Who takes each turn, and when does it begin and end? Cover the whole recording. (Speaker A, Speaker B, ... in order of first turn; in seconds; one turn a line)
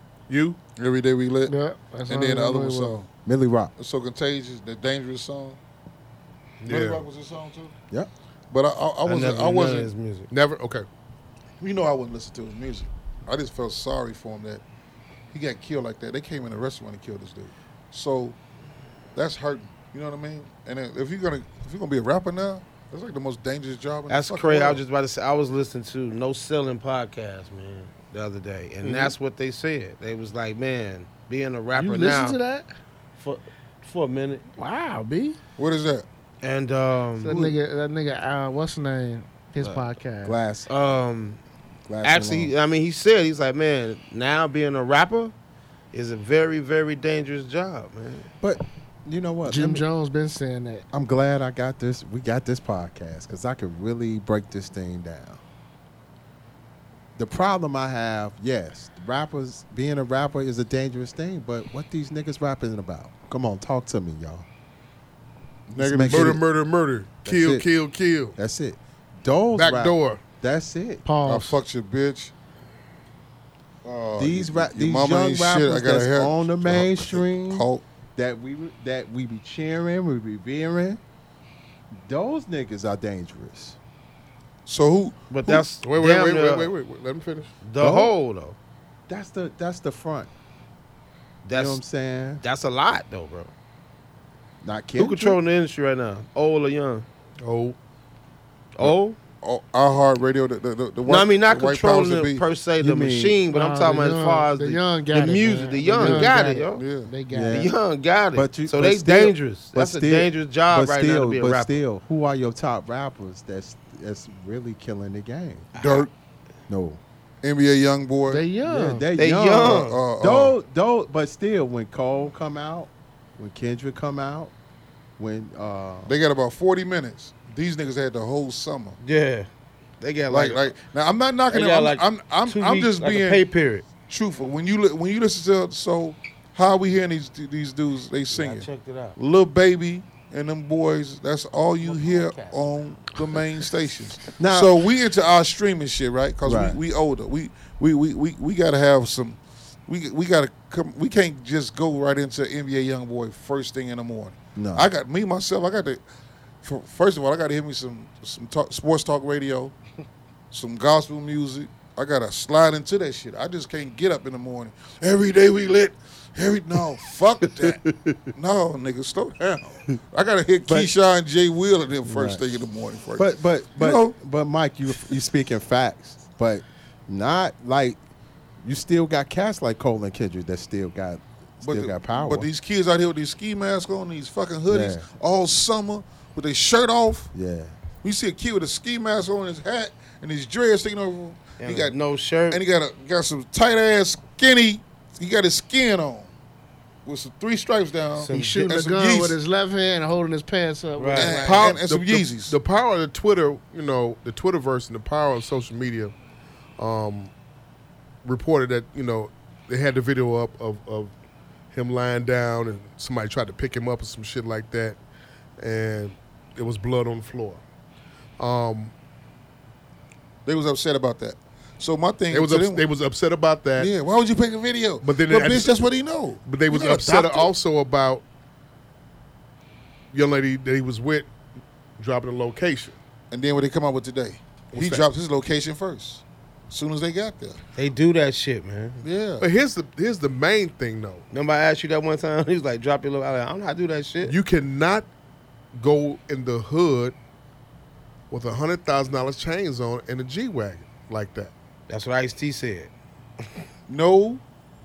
Speaker A: 0.3-0.6
Speaker B: 0.8-1.5
Speaker C: 1.5-3.0
Speaker B: 2.1-3.1
Speaker D: 3.2-3.7
Speaker B: 3.8-5.6
Speaker A: 6.6-7.0
Speaker B: 6.7-7.7
Speaker B: 8.5-9.9
Speaker E: 9.0-10.3
Speaker A: 10.3-10.8
Speaker B: 11.6-14.6
Speaker B: 15.3-18.4
Speaker B: 19.1-24.8
Speaker E: 24.1-32.4
Speaker C: 31.7-32.7
Speaker E: 33.2-34.5
Speaker C: 34.6-35.4
Speaker B: 35.6-36.0
Speaker E: 36.4-37.5
Speaker C: 37.2-40.4
Speaker D: 40.2-40.7
Speaker E: 40.7-41.4
Speaker D: 41.9-42.5
Speaker E: 42.0-45.3
Speaker E: 45.9-48.3
Speaker D: 48.4-49.8
Speaker C: 49.5-50.8
Speaker D: 50.9-55.4
Speaker D: 57.1-64.5
Speaker B: 65.7-66.4
Speaker D: 65.8-66.4
Speaker A: 66.1-68.3
Speaker D: 67.2-67.7
Speaker D: 68.3-71.0
Speaker A: 69.5-70.2
Speaker C: 71.0-71.6
Speaker B: 71.2-72.3
Speaker B: 73.8-77.8
Speaker D: 74.2-81.0
Speaker D: 81.9-83.8
Speaker B: 84.7-85.7
Speaker E: 85.3-86.7
Speaker A: 85.8-87.5
Speaker E: 87.6-88.5
Speaker D: 87.8-88.1
Speaker D: 89.1-90.3
Speaker E: 91.4-91.8
Speaker D: 91.5-92.4
Speaker E: 92.4-93.5
Speaker D: 94.6-95.4
Speaker E: 95.0-97.0
Speaker A: 97.4-97.8
Speaker E: 98.8-99.2
Speaker B: 98.8-102.4
Speaker E: 101.0-106.8
Speaker D: 102.8-103.4
Speaker C: 103.5-107.7
Speaker B: 106.7-107.1
Speaker D: 107.3-107.7
Speaker E: 107.5-111.8
Speaker D: 108.3-115.7
Speaker E: 115.7-116.1
Speaker B: 115.8-116.1
Speaker D: 116.7-117.0
Speaker B: 117.4-118.4
Speaker C: 118.3-119.1
Speaker D: 118.6-124.5
Speaker E: 119.2-120.0
Speaker B: 119.6-120.5
Speaker D: 125.2-126.2
Speaker B: 126.0-129.0
Speaker E: 129.0-129.5
Speaker E: 130.0-130.7
Speaker B: 130.3-133.4
Speaker E: 131.5-133.8
Speaker B: 134.1-156.0
Speaker E: 138.3-139.2
Speaker E: 141.8-142.7
Speaker D: 144.4-144.7
Speaker D: 146.4-146.8
Speaker D: 154.5-154.9
Speaker B: 156.6-159.7
Speaker B: 160.5-167.8
Speaker B: 168.3-174.1
Speaker D: 170.7-170.9
Speaker D: 172.0-172.5
Speaker D: 173.2-178.0
Speaker D: 178.6-182.5
Speaker B: 181.6-187.3
Speaker D: 184.7-185.1
Speaker D: 187.3-187.7
Speaker B: 188.0-191.9
Speaker E: 191.6-192.6
Speaker B: 192.5-196.3
Speaker B: 197.0-199.4
Speaker E: 198.2-198.6
Speaker C: 198.3-201.8
Speaker E: 201.0-201.5
Speaker B: 201.1-202.6
Speaker A: 201.4-206.1
Speaker A: 206.8-207.3
Speaker A: 208.2-211.1
Speaker A: 211.7-215.0
Speaker A: 215.6-217.6
Speaker A: 218.4-218.9
Speaker B: 220.4-222.8
Speaker A: 222.3-223.9
Speaker B: 223.8-227.5
Speaker A: 225.0-225.8
Speaker A: 226.4-228.2
Speaker A: 230.1-231.3
Speaker A: 232.0-232.9
Speaker B: 233.3-237.6
Speaker A: 234.7-235.1
Speaker E: 237.7-239.0
Speaker B: 239.0-239.5
Speaker A: 239.4-241.2
Speaker E: 241.3-244.3
Speaker A: 244.2-245.1
Speaker A: 245.7-247.1
Speaker A: 248.3-251.5
Speaker E: 251.9-252.9
Speaker B: 253.9-254.4